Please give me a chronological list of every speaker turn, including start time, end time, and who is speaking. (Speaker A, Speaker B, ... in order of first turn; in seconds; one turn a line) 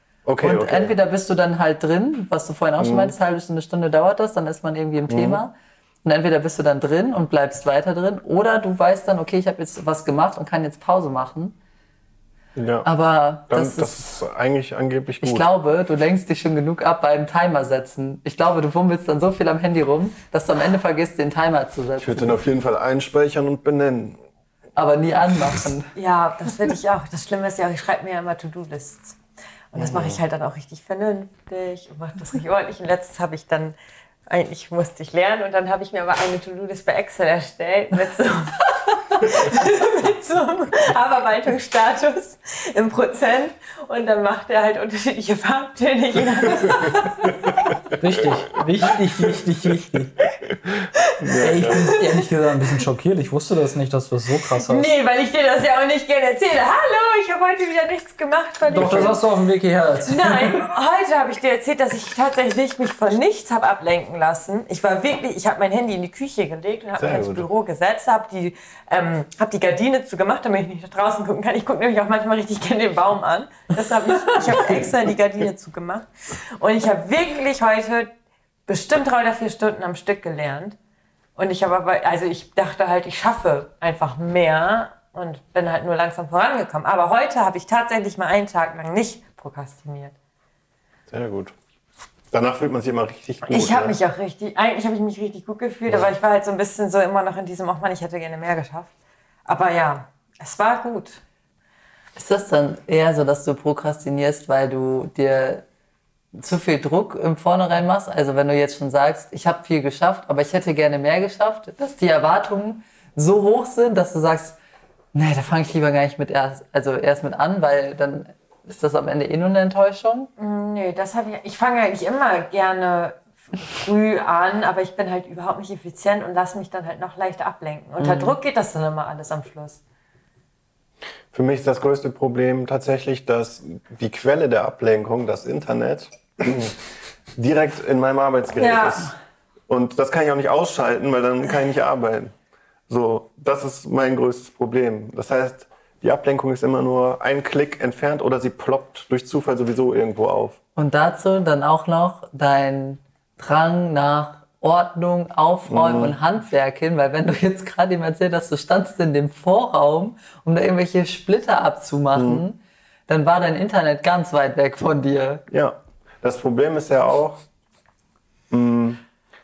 Speaker A: 0.2-0.9
Speaker B: 0.4-11.5
Speaker A: 2.8-3.1
Speaker A: 5.1-5.4
Speaker A: 12.5-12.9
Speaker B: 12.8-14.1
Speaker A: 13.5-15.5
Speaker B: 15.2-22.4
Speaker A: 22.0-24.2
Speaker B: 24.8-25.9
Speaker C: 25.9-29.2
Speaker C: 29.7-33.7
Speaker A: 29.8-30.2
Speaker C: 34.3-47.4
Speaker A: 46.6-47.0
Speaker D: 48.0-50.1
Speaker A: 50.8-51.9
Speaker C: 51.0-52.3
Speaker D: 51.4-54.9
Speaker C: 54.6-59.2
Speaker A: 58.7-59.2
Speaker D: 58.7-60.7
Speaker C: 60.1-78.1
Speaker A: 67.0-67.5
Speaker C: 78.7-80.8
Speaker C: 81.4-90.1
Speaker A: 91.1-91.5
Speaker A: 92.3-94.0
Speaker C: 93.5-98.9
Speaker C: 99.5-101.2
Speaker B: 102.2-105.6
Speaker B: 106.3-114.5
Speaker B: 115.1-120.3
Speaker C: 120.4-129.8
Speaker B: 128.0-128.3
Speaker A: 131.3-136.7
Speaker A: 137.3-139.1
Speaker C: 138.6-139.1
Speaker A: 139.7-142.3
Speaker A: 142.9-150.6
Speaker B: 150.8-165.4
Speaker A: 155.7-156.2
Speaker A: 162.1-162.4
Speaker A: 165.5-167.4
Speaker A: 168.5-169.0